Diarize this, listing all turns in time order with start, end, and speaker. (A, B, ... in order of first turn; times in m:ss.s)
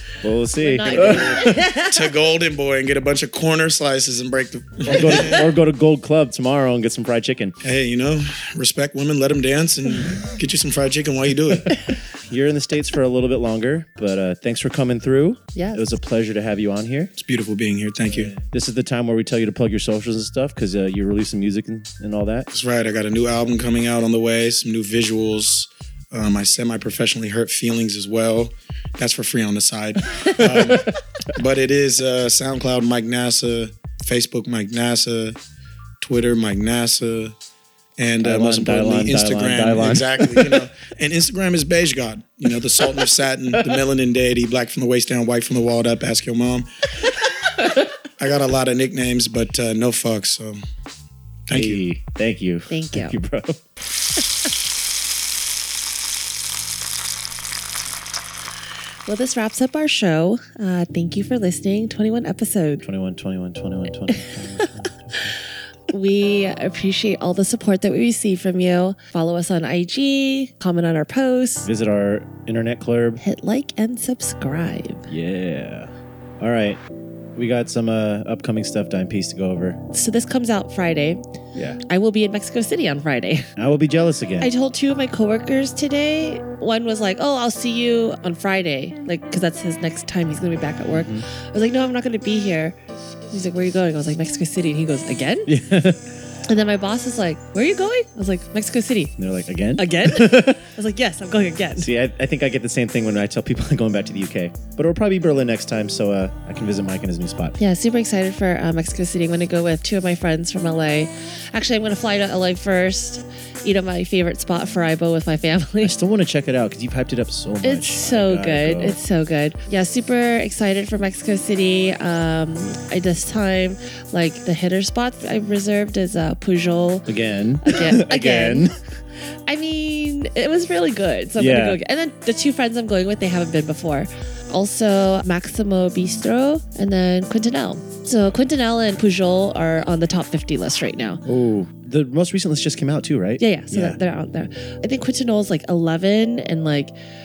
0:00.2-0:01.6 A
0:00.6-0:02.0 B
0:00.8-0:05.5 C
0:04.8-0:07.6 A
0:07.6-0:11.8 C
0:11.9-0:17.1 A
0:15.5-0:15.9 B
0:17.2-0:18.4 C
0:18.3-0:22.5 A
0:22.5-0:35.4 C
0:36.0-0:37.3 C
0:38.0-0:46.7 C
0:38.2-0:40.7 A
0:48.2-0:50.6 C
0:51.5-0:51.8 C
0:51.5-0:53.6 A
0:52.7-0:53.2 B
0:59.0-1:02.8 B
1:02.8-1:05.3 A
1:05.9-1:11.7 B
1:11.6-1:13.2 A
1:13.2-1:15.1 B
1:15.1-1:16.8 A
1:17.3-1:19.8 A
1:19.9-1:21.2 B
1:21.8-1:23.5 B
1:23.6-1:24.5 A
1:24.4-1:32.8 B
1:30.9-1:31.2 A
1:33.3-1:35.5 B
1:35.5-1:36.0 A
1:36.4-1:39.1 B
1:39.2-1:40.6 A
1:39.8-1:41.9 B
1:41.8-1:47.6 A
1:47.6-1:56.0 B
1:55.8-1:59.0 A
1:57.6-2:07.1 B
2:07.1-2:08.7 A
2:07.6-2:08.7 B
2:09.4-2:21.2 B
2:11.4-2:11.8 A
2:21.2-2:24.0 A
2:23.4-2:26.9 B